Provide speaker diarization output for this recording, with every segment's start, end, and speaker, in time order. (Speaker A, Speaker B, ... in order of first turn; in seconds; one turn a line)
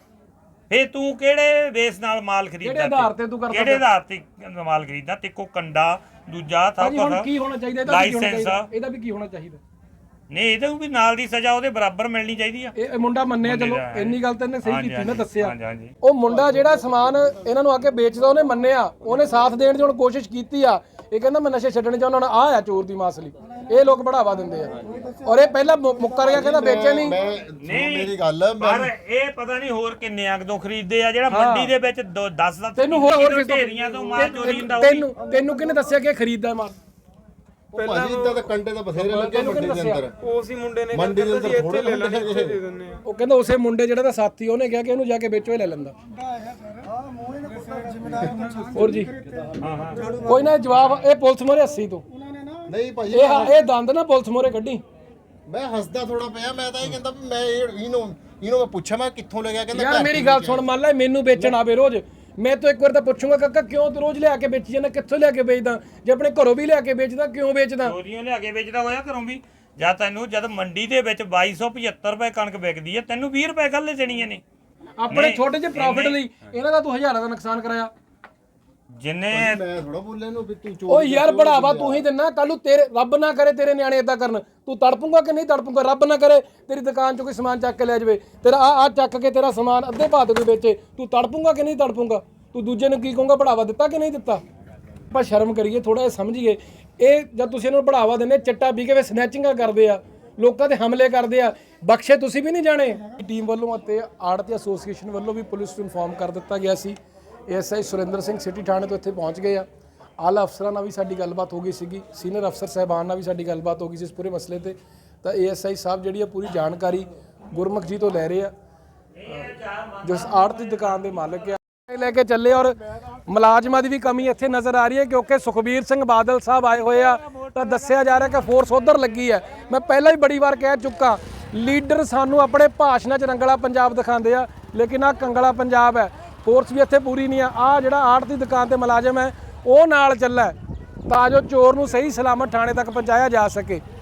Speaker A: 0.7-7.3
Speaker B: 2.6-3.8
Speaker B: 6.8-9.6
Speaker A: 7.8-8.7
Speaker A: 10.3-12.7
Speaker B: 12.8-27.2
Speaker A: 13.4-15.9
Speaker C: 26.1-28.9
Speaker A: 27.6-35.1
Speaker B: 31.3-31.7
Speaker B: 32.8-36.8
Speaker C: 37.7-40.1
Speaker D: 37.7-38.5
Speaker B: 39.0-40.0
Speaker D: 40.2-43.0
Speaker C: 40.9-42.6
Speaker B: 43.0-45.9
Speaker D: 47.5-49.1
Speaker B: 48.7-49.1
Speaker A: 49.6-50.1
Speaker D: 50.0-50.5
Speaker B: 50.2-52.0
Speaker C: 52.6-53.6
Speaker B: 53.1-54.8
Speaker C: 55.5-60.7
Speaker B: 59.7-67.9
Speaker A: 67.8-74.4
Speaker B: 75.0-77.9
Speaker A: 75.1-76.2
Speaker A: 79.0-79.6
Speaker C: 79.3-82.0
Speaker B: 80.9-94.4
Speaker B: 95.1-107.0
Speaker B: 107.5-109.6
Speaker B: 110.2-118.5
Speaker A: 119.2-121.5
Speaker B: 120.0-140.6
Speaker A: 126.8-128.3
Speaker B: 141.1-143.8